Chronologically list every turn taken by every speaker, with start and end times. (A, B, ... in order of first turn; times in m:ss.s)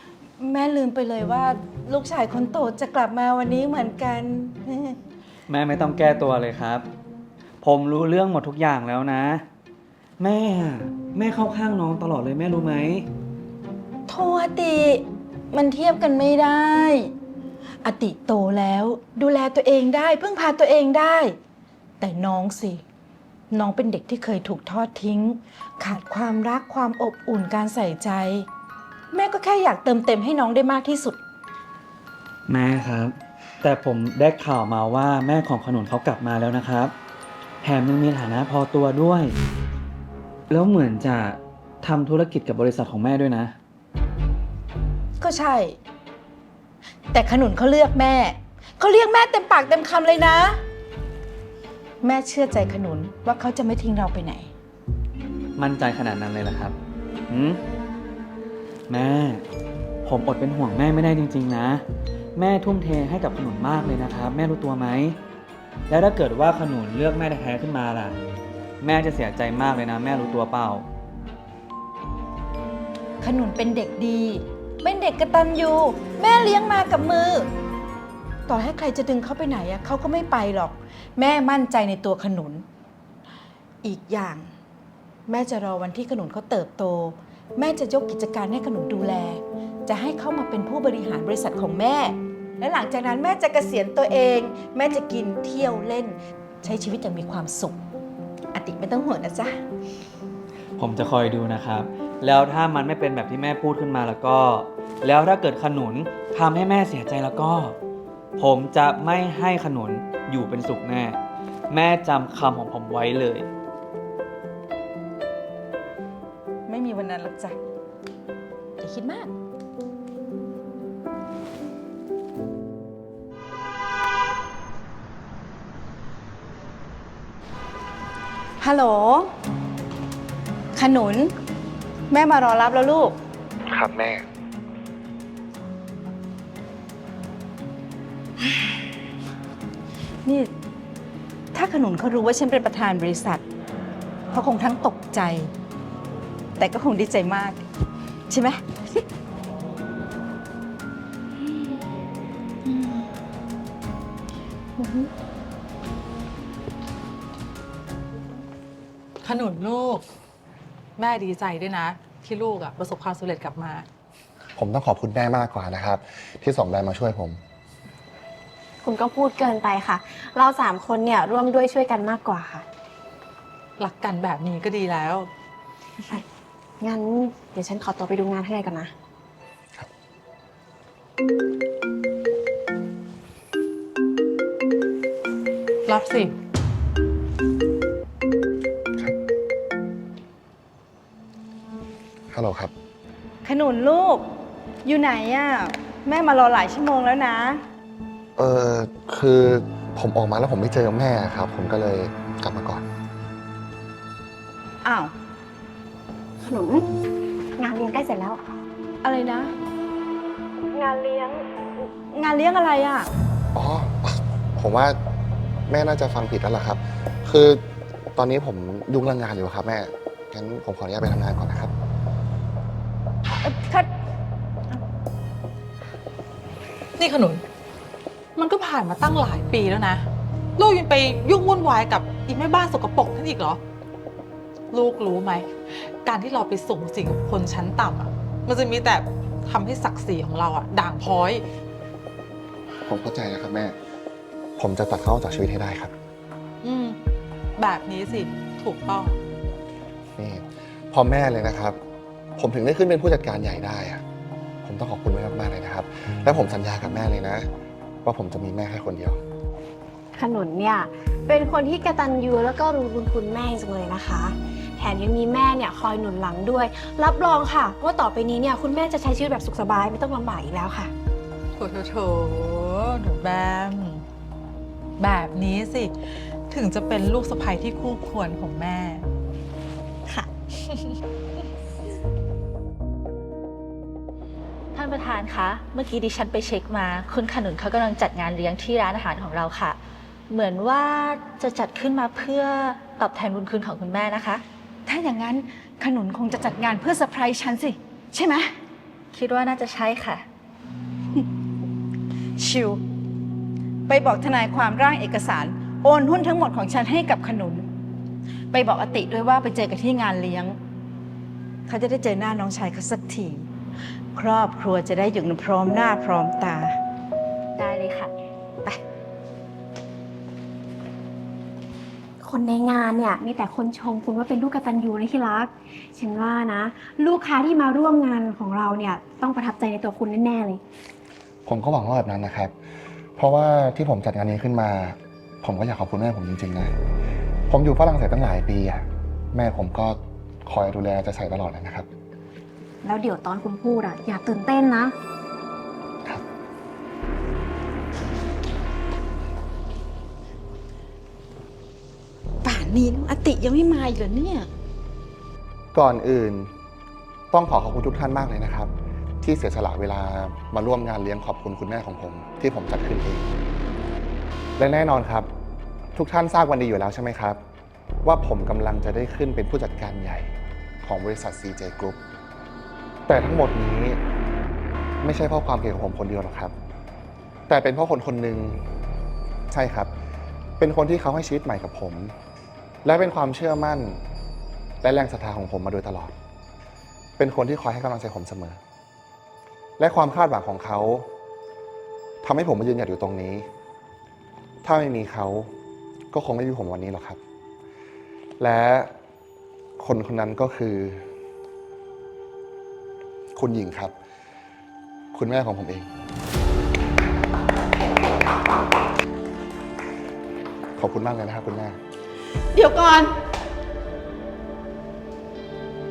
0:00.4-0:05.0 A
0:05.5-0:06.9 B
0:07.6-0:09.4 B
0:10.2-0:13.1 B
0:14.1-0:17.1 A
0:17.8-0:21.4 A
0:22.0-0:22.8 A
0:23.5-0:28.5 A
0:29.1-0:31.2 A
0:32.5-0:36.9 B
0:37.6-0:39.4 B
0:40.5-0:43.5 B
0:45.2-0:45.8 A
0:47.1-0:50.6 A
0:52.0-0:54.5 A
0:55.6-0:56.8 B
0:57.3-0:57.6 B
0:58.9-0:59.4 B
1:00.0-1:01.8 B
1:02.4-1:05.2 B
1:05.9-1:08.2 B
1:08.8-1:10.9 B
1:13.2-1:17.5 A
1:18.5-1:22.7 A
1:23.8-1:24.5 A
1:25.3-1:37.8 A
1:38.5-1:39.6 A
1:40.8-1:47.8 B
1:48.4-1:51.2 B
1:51.7-1:53.5 B
1:56.7-1:57.6 A
1:58.8-1:59.3 A
2:08.6-2:09.3 A
2:10.7-2:11.3 A
2:12.1-2:13.2 A
2:13.7-2:14.2 C
2:20.2-2:20.5 A
2:21.5-2:23.4 A
2:24.3-2:25.5 A
2:26.6-2:27.6 A
2:28.3-2:29.1 A
2:32.6-2:33.1 A
2:34.8-2:35.1 A
2:39.2-2:40.0 D
2:41.0-2:43.9 D
2:44.6-2:47.4 C
2:48.8-2:52.6 E
2:53.8-2:55.3 D
2:56.8-2:58.9 E
3:05.9-3:06.3 D
3:12.3-3:12.7 C
3:13.4-3:14.3 A
3:14.8-3:17.6 A
3:18.4-3:22.8 C
3:24.8-3:25.1 A
3:26.4-3:26.9 E
3:27.6-3:28.4 E
3:29.0-3:29.5 A
3:30.7-3:31.4 E
3:32.1-3:33.1 A
3:33.5-3:35.0 C
3:35.7-3:37.6 C
3:38.2-3:41.7 C
3:43.3-3:43.9 A
3:47.0-3:47.4 D
3:48.4-3:50.1 D
3:50.6-3:53.6 D
3:54.7-3:55.5 D
3:56.0-4:01.4 D
4:02.9-4:03.8 C
4:04.6-4:05.9 C
4:06.6-4:07.0 D
4:07.6-4:09.2 D
4:10.2-4:11.8 C
4:12.4-4:14.0 C
4:14.6-4:17.5 C
4:18.0-4:19.2 C
4:20.2-4:30.9 E
4:31.6-4:34.0 D
4:35.0-4:35.9 D
4:36.5-4:39.0 D
4:44.7-4:54.4 F
4:54.9-4:58.5 A
4:59.1-5:00.2 F
5:02.4-5:02.8 A
5:03.9-5:07.7 A
5:08.5-5:10.6 A
5:11.7-5:13.5 A
5:14.1-5:16.8 A
5:17.6-5:18.1 F
5:22.2-5:30.6 E
5:31.5-5:32.5 C
5:33.2-5:36.7 C
5:37.5-5:41.9 C
5:42.8-5:44.9 E
5:52.4-5:54.5 A
5:55.7-5:56.5 C
5:57.3-5:58.7 C
5:59.2-6:03.3 C
6:04.6-6:05.3 C
6:06.0-6:07.4 C
6:08.0-6:10.3 C
6:10.8-6:12.0 C
6:13.1-6:14.0 C
6:15.0-6:16.5 C
6:17.5-6:18.6 C
6:19.5-6:19.9 C
6:20.6-6:22.1 C
6:22.8-6:24.0 C
6:24.8-6:26.1 C
6:27.2-6:28.6 C
6:29.8-6:31.1 C
6:32.2-6:33.5 C
6:34.6-6:35.5 C
6:36.1-6:37.2 C
6:38.4-6:38.9 C
6:39.8-6:41.0 C
6:43.4-6:43.9 C
6:45.1-6:45.9 C
6:50.8-6:51.8 C
6:52.5-6:53.2 A